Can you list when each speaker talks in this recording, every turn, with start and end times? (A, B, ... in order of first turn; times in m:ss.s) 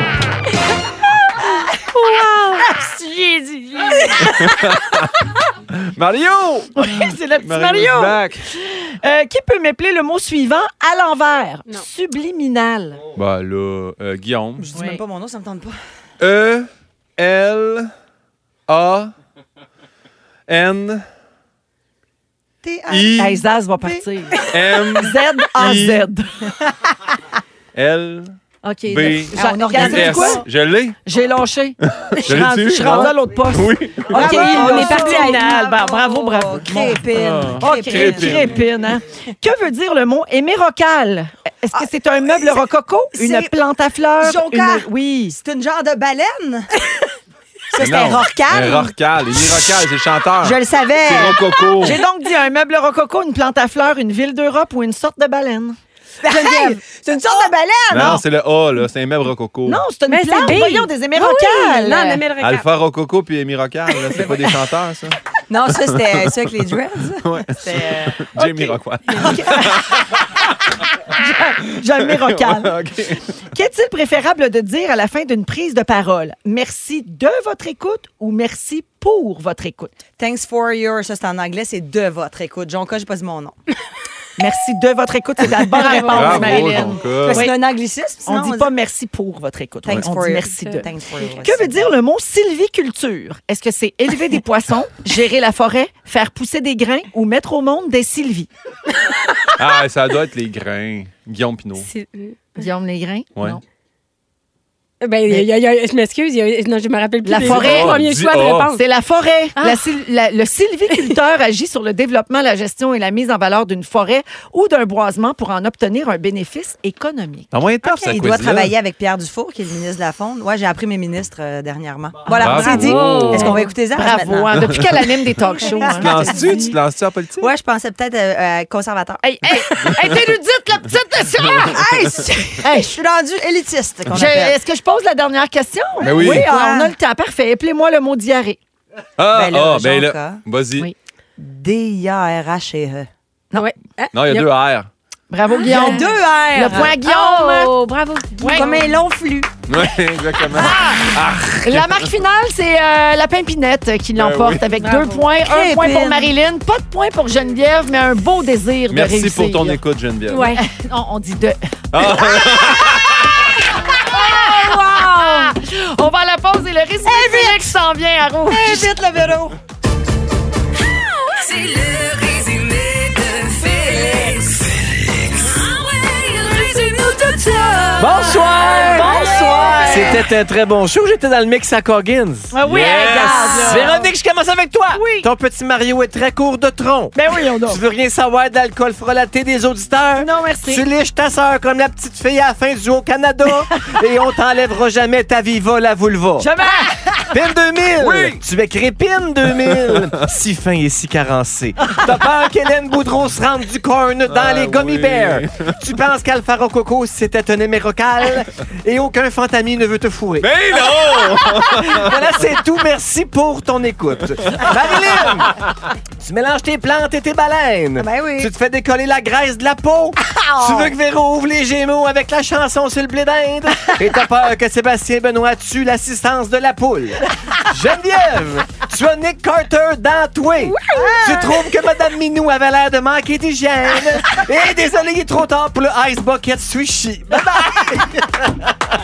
0:01.8-0:04.6 A
0:04.2-0:05.1 B
0:05.6-0:08.5 B
0:06.8-0:13.0 A
0:13.2-0:14.6 B
0:14.6-0:15.8 C
0:14.7-0:15.0 A
0:16.2-0:17.9 B
0:18.7-0:19.1 B
0:20.5-0:21.0 B
0:22.6-0:24.4 C
0:22.9-0:23.4 B
0:23.2-0:26.3 A
0:24.5-0:26.1 B
0:27.7-0:28.4 B
0:28.6-0:30.4 A
0:28.9-0:31.0 B
0:29.3-0:30.4 C
0:31.0-0:37.0 A
0:31.9-0:34.3 B
0:34.1-0:38.6 C
0:34.1-0:35.5 D
0:37.1-0:38.6 B
0:37.6-0:45.4 A
0:41.7-0:42.6 C
0:43.1-0:43.5 C
0:44.2-0:46.7 C
0:47.7-0:49.6 C
0:47.8-0:52.0 B
0:50.4-0:51.5 C
0:51.8-0:55.8 A
0:56.2-0:58.2 C
0:56.2-0:57.5 D
0:57.9-0:59.8 B
0:57.9-0:58.2 A
0:59.6-1:02.2 A
1:00.1-1:02.7 D
1:02.4-1:05.2 B
1:05.5-1:08.6 C
1:05.9-1:06.2 B
1:07.2-1:10.2 B
1:08.4-1:09.8 A
1:11.1-1:12.7 A
1:12.2-1:13.3 B
1:13.4-1:19.9 A
1:20.2-1:23.6 C
1:24.4-1:27.5 A
1:25.5-1:28.7 C
1:25.7-1:26.8 D
1:26.0-1:27.4 B
1:28.2-1:30.9 A
1:29.8-1:31.9 C
1:31.4-1:38.5 A
1:39.6-1:41.9 B
1:41.8-1:42.6 D
1:42.6-1:43.6 A
1:45.0-1:48.8 D
1:47.2-1:48.0 A
1:47.4-1:48.7 B
1:48.7-1:57.5 A
1:49.6-1:49.8 D
1:50.9-1:51.2 D
1:57.5-1:58.7 B
1:57.8-1:58.2 D
1:58.0-2:04.8 C
2:02.3-2:06.7 A
2:02.3-2:03.6 B
2:02.4-2:03.6 D
2:05.6-2:06.7 C
2:06.0-2:07.5 B
2:07.4-2:10.0 C
2:09.2-2:11.8 A
2:11.6-2:14.6 C
2:12.6-2:13.0 A
2:14.1-2:18.6 A
2:16.0-2:16.5 B
2:16.0-2:16.9 C
2:19.2-2:20.9 B
2:19.3-2:20.4 C
2:21.4-2:23.7 C
2:23.5-2:24.5 D
2:24.1-2:24.9 B
2:25.3-2:27.7 A
2:25.5-2:26.1 D
2:25.6-2:27.0 C
2:26.7-2:29.0 D
2:28.4-2:28.8 A
2:28.4-2:29.5 C
2:29.7-2:32.1 B
2:30.5-2:39.8 A
2:34.2-2:34.6 B
2:34.8-2:35.3 D
2:35.4-2:36.4 C
2:38.9-2:40.5 B
2:40.3-2:40.6 D
2:40.4-2:43.2 A
2:41.9-2:43.6 B
2:43.9-2:48.9 A
2:44.0-2:45.5 D
2:47.0-2:47.7 C
2:48.5-2:49.6 C
2:50.9-2:54.7 E
2:55.4-2:58.2 E
2:58.0-3:16.5 F
2:58.6-3:00.2 A
3:02.5-3:04.1 A
3:04.9-3:05.3 A
3:07.1-3:07.8 A
3:10.2-3:10.9 A
3:16.4-3:17.3 A
3:17.3-3:30.5 F
3:18.0-3:18.4 B
3:19.6-3:20.0 B
3:24.3-3:25.7 B
3:30.4-3:32.2 B
3:31.6-3:35.6 F
3:34.4-3:35.2 B
3:36.2-3:58.5 F
3:38.0-3:38.5 C
3:40.7-3:40.9 C
3:50.7-3:51.2 D
3:50.9-3:51.6 C